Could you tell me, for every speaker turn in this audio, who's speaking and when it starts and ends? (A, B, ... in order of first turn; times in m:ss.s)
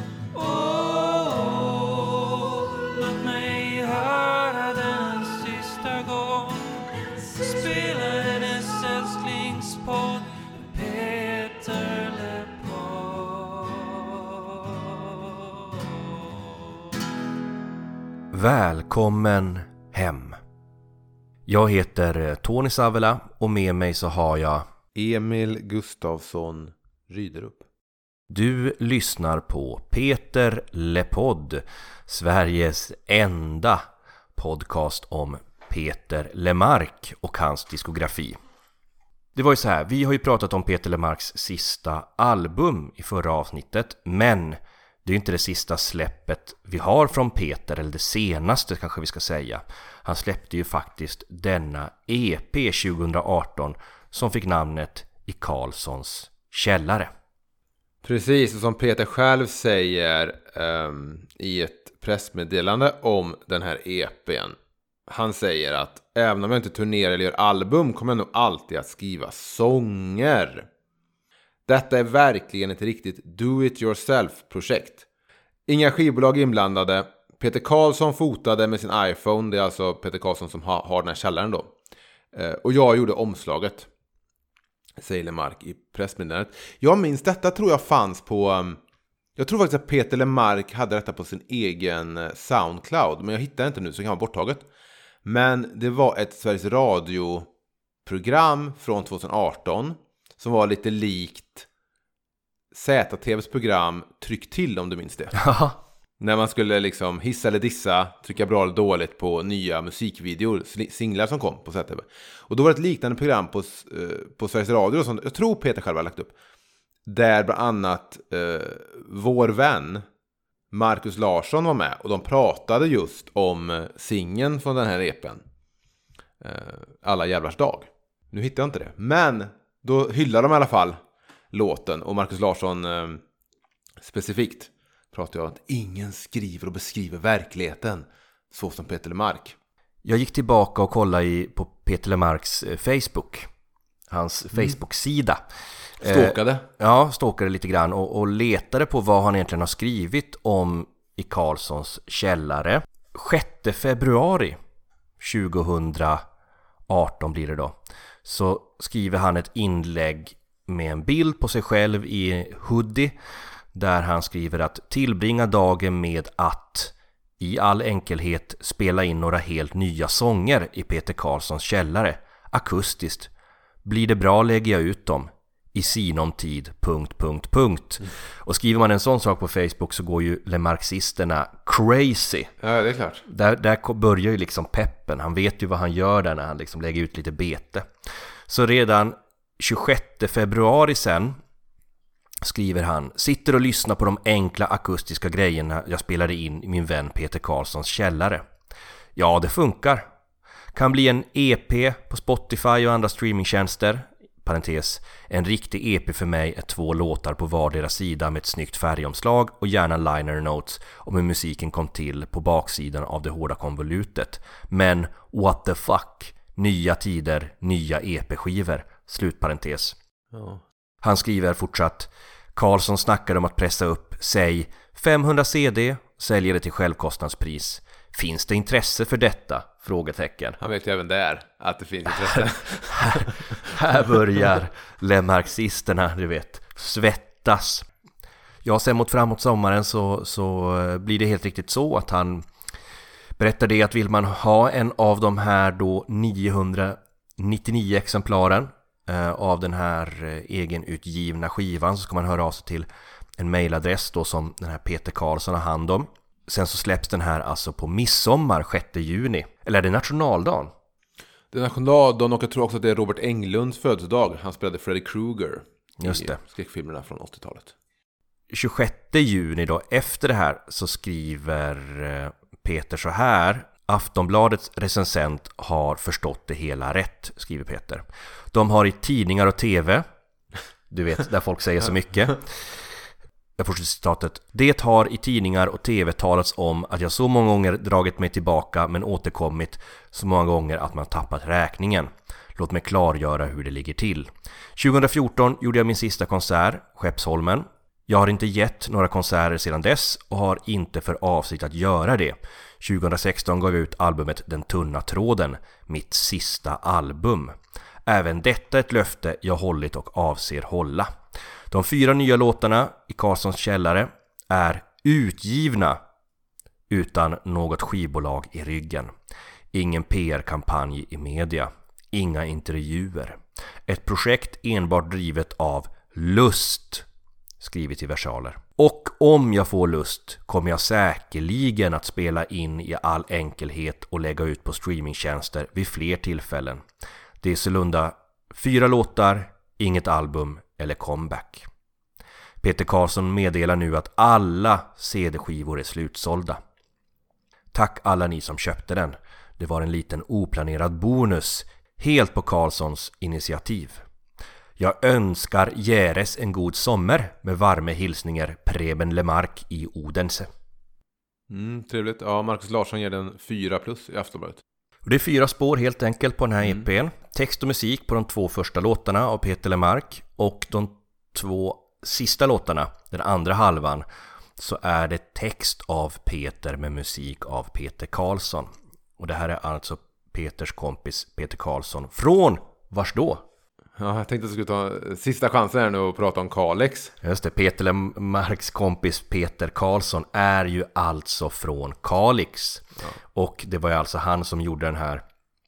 0:00.3-0:16.2 A
0:18.3-0:20.4 B
0:21.5-0:24.7 B
0:24.9-0:27.7 C
0:28.3-0:38.4 B
0:39.3-0:57.1 B
0:58.0-1:04.6 C
1:05.1-1:10.7 C
1:11.6-1:15.0 C
1:15.7-1:21.7 C
1:22.3-1:23.9 C
1:25.0-1:28.8 C
1:29.4-1:34.6 C
1:35.2-1:37.5 C
1:38.0-1:41.7 C
1:42.7-1:45.4 C
1:45.3-1:45.8 B
1:46.2-1:56.3 C
1:57.0-2:00.0 C
2:00.7-2:05.4 C
2:06.4-2:11.0 C
2:11.5-2:13.2 C
2:14.0-2:19.5 C
2:20.0-2:23.5 B
2:24.1-2:25.4 B
2:26.0-2:34.6 B
2:26.0-2:26.6 C
2:35.2-2:36.2 B
2:36.9-2:43.1 B
2:43.7-2:53.3 B
2:53.8-3:02.5 B
3:02.6-3:03.2 C
3:03.2-3:07.9 B
3:08.5-3:11.4 B
3:12.4-3:18.4 B
3:19.2-3:20.0 B
3:20.7-3:40.0 B
3:40.3-3:40.6 C
3:41.0-3:50.6 B
3:50.6-3:53.8 C
3:53.0-3:57.9 B
3:58.6-4:02.4 B
4:03.4-4:20.7 B
4:21.5-4:27.7 C
4:26.0-4:26.4 B
4:28.5-4:40.0 B
4:40.9-4:42.9 B
4:43.6-5:11.1 B
5:11.7-5:16.0 B
5:16.9-5:19.1 B
5:19.7-5:27.0 B
5:27.6-5:36.8 B
5:37.4-5:41.7 B
5:42.6-5:46.6 B
5:47.7-5:54.0 B
5:54.8-6:00.5 B
6:01.5-6:04.6 C
6:05.0-6:14.0 B
6:14.6-6:23.4 B
6:24.0-6:27.1 C
6:27.2-6:35.2 B